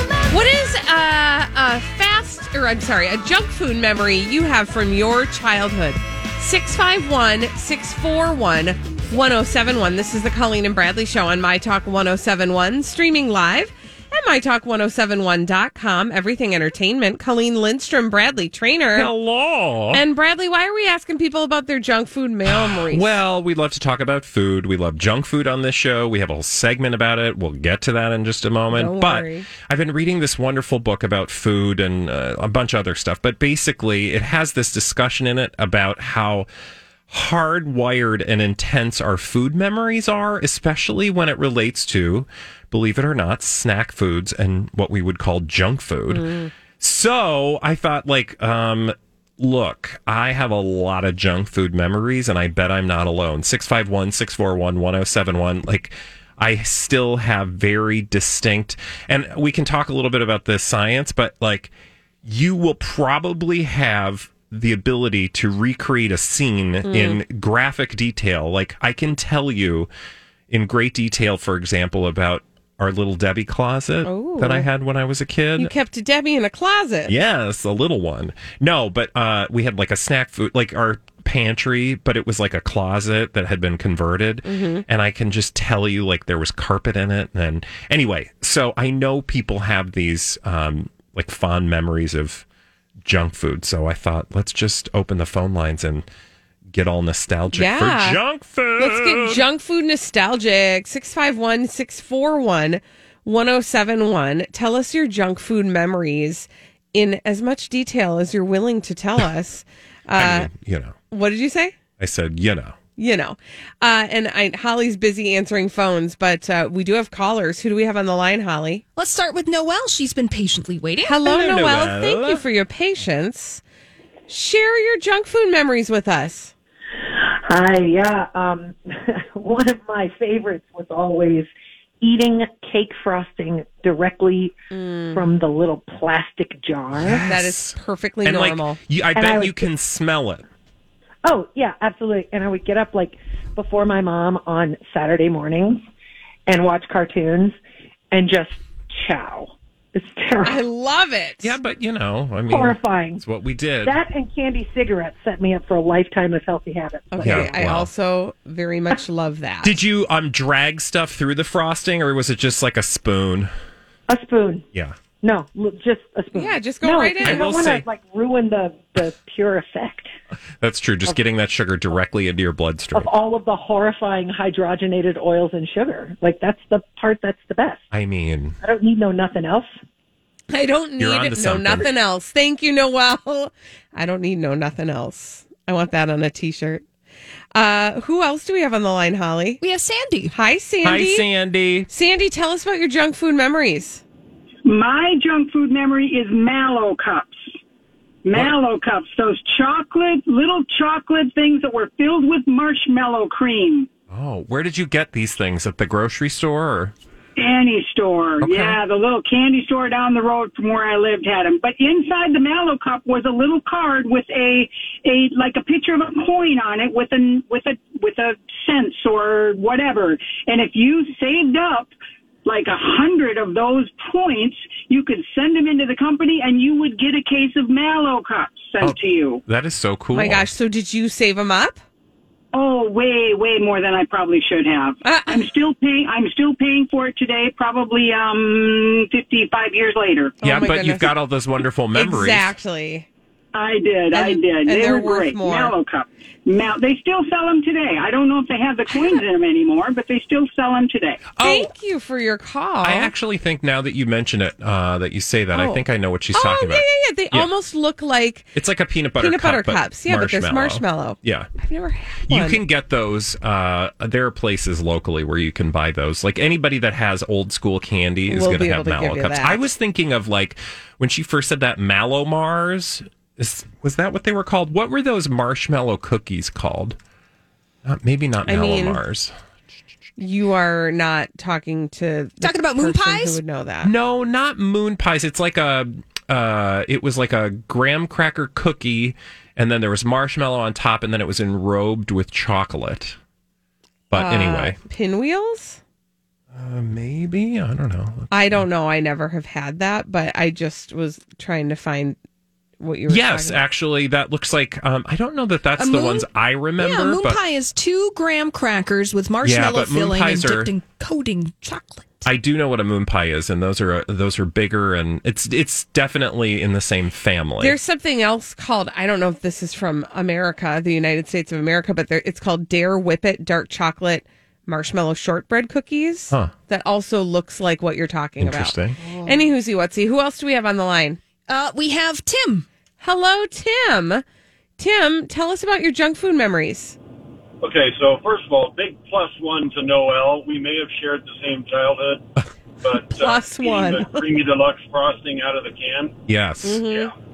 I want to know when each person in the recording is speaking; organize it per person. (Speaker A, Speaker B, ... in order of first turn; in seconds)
Speaker A: 0.3-19.1, 19.9-23.1, 28.7-29.5, 46.1-46.5, 66.8-67.2, 74.0-74.7, 75.6-77.1, 84.5-84.8, 97.5-98.2, 98.8-110.5, 111.1-111.8, 113.0-118.8, 121.0-123.6, 124.3-126.5, 134.7-135.2, 137.2-138.8, 150.4-151.5, 157.1-159.7, 166.3-167.8, 180.5-186.8, 187.5-189.6, 190.3-191.2, 191.9-194.0, 230.1-231.8, 235.0-235.5, 240.4-241.2, 241.9-243.1, 244.1-245.7, 251.4-253.1, 255.5-255.8, 256.3-258.5, 259.2-262.6, 268.3-269.6, 278.4-279.0, 280.2-283.9, 294.1-295.8, 298.3-302.2, 302.8-303.6, 317.6-331.2, 333.0-334.2, 334.8-337.0, 343.1-344.3, 346.6-347.1
Speaker B: 18.9-20.0, 22.4-36.5, 37.1-61.7, 62.2-69.9, 70.5-75.7, 77.1-92.4, 93.0-96.0, 96.7-99.4, 110.1-110.9, 112.0-112.8, 121.2-122.4, 137.0-140.4, 151.4-154.0, 157.2-157.9, 159.6-163.5, 167.2-167.8, 170.6-173.1, 177.9-178.6, 181.0-181.9, 190.8-191.9, 204.1-206.9, 208.4-208.8, 228.8-230.5, 240.4-242.5, 251.3-251.7, 252.8-257.5, 258.5-261.5, 262.2-277.0, 277.8-279.3, 283.8-293.2, 294.1-294.8, 296.5-298.6, 303.1-307.4, 309.4-310.7, 312.2-317.8, 328.4-329.0, 346.3-346.8
Speaker C: 119.0-121.2, 189.6-190.3, 282.4-283.4, 305.8-312.2, 331.5-332.6
Speaker D: 127.1-131.5, 132.0-134.5, 135.1-137.2, 139.1-139.7, 141.2-145.8, 146.5-147.5, 148.1-150.6, 152.5-153.2, 153.8-157.7, 164.1-164.7, 165.2-170.1, 172.9-177.8, 178.6-179.7
Speaker E: 194.6-197.5, 198.2-203.9, 207.4-221.9, 222.4-229.4, 232.5-240.4, 243.5-251.2
Speaker F: 337.6-342.2, 342.8-346.2, 346.9-347.1